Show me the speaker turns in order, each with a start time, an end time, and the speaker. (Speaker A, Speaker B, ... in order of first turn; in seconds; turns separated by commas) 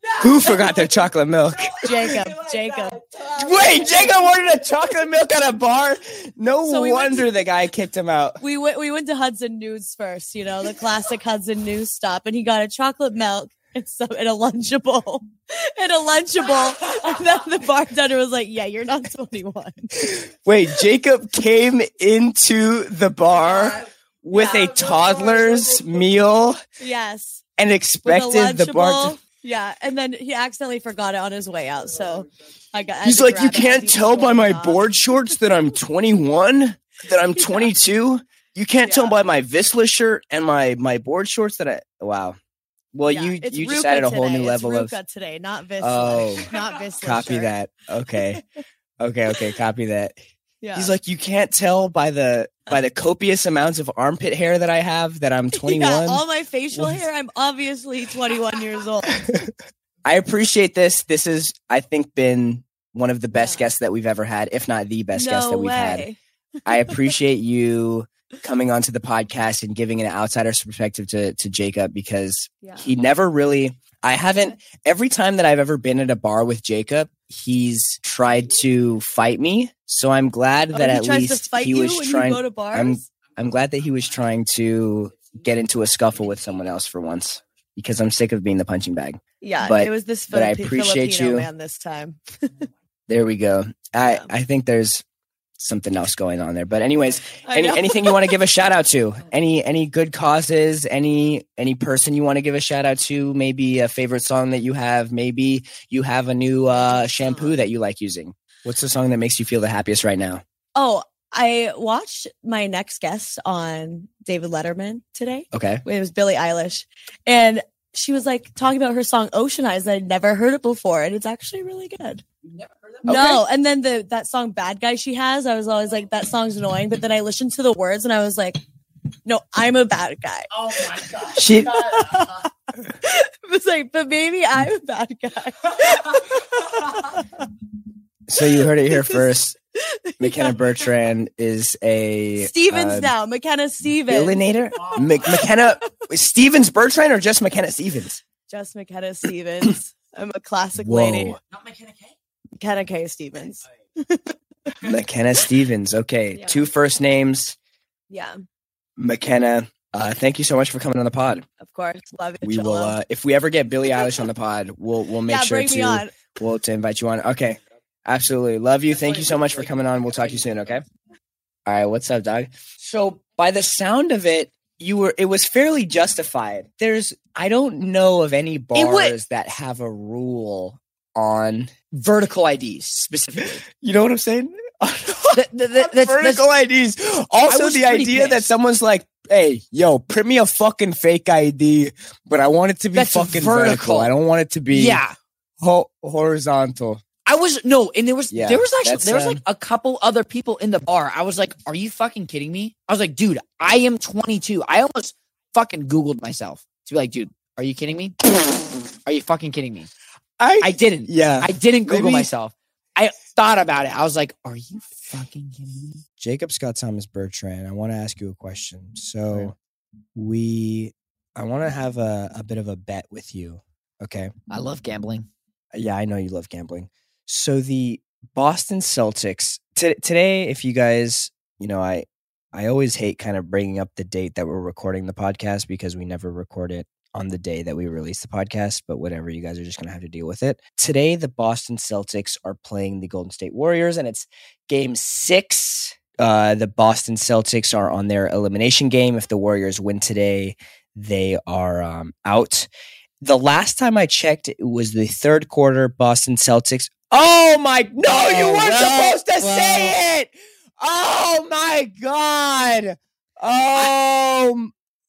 Speaker A: 0.2-2.3, Speaker B: 1.8-4.0, Speaker A: 3.3-8.4, Speaker B: 6.6-7.3, Speaker B: 8.4-20.2, Speaker A: 20.0-26.6, Speaker B: 24.3-25.5, Speaker B: 26.8-27.4, Speaker A: 27.6-29.1, Speaker B: 28.0-34.8, Speaker A: 33.0-42.4, Speaker B: 37.4-37.7, Speaker B: 38.9-39.1, Speaker A: 42.9-44.9, Speaker B: 43.0-47.5, Speaker A: 45.8-46.5, Speaker A: 47.0-48.4, Speaker A: 49.0-50.1, Speaker B: 50.6-50.9, Speaker A: 50.7-56.2, Speaker B: 55.5-59.2, Speaker A: 56.7-57.0, Speaker A: 59.1-59.5, Speaker A: 60.0-66.0, Speaker B: 63.3-63.7, Speaker B: 65.1-66.2, Speaker A: 66.7-91.5, Speaker B: 66.7-67.0, Speaker B: 72.6-72.9, Speaker B: 80.7-83.0, Speaker B: 89.4-92.7, Speaker A: 93.1-95.0, Speaker A: 95.6-110.4, Speaker B: 97.5-98.4, Speaker B: 106.7-107.5, Speaker B: 110.7-122.2, Speaker A: 115.5-115.8, Speaker B: 123.0-128.6, Speaker A: 123.0-123.4, Speaker B: 129.2-132.5, Speaker A: 131.3-132.0, Speaker B: 133.0-137.5, Speaker A: 138.3-139.6, Speaker B: 138.9-140.6, Speaker A: 140.2-143.1, Speaker B: 142.4-145.4, Speaker A: 144.1-148.2, Speaker B: 148.5-151.3, Speaker A: 150.7-151.4, Speaker B: 152.6-154.3, Speaker A: 154.8-157.6, Speaker B: 156.3-156.6, Speaker B: 158.1-158.3, Speaker A: 159.0-161.4, Speaker B: 161.6-162.9, Speaker A: 162.4-170.8, Speaker B: 165.2-166.2, Speaker A: 171.7-181.7, Speaker C: 178.7-179.2, Speaker C: 181.9-183.6, Speaker A: 183.7-195.0, Speaker C: 185.3-186.4, Speaker C: 187.5-188.5, Speaker C: 192.9-194.1, Speaker C: 194.7-195.1, Speaker A: 195.6-197.0, Speaker C: 197.2-208.2, Speaker A: 198.3-199.4, Speaker C: 209.1-209.9, Speaker A: 210.4-212.3, Speaker C: 210.6-216.0, Speaker A: 216.2-219.5, Speaker A: 220.1-224.3, Speaker C: 224.5-225.3, Speaker A: 225.7-252.7, Speaker A: 253.2-264.7, Speaker C: 258.1-259.9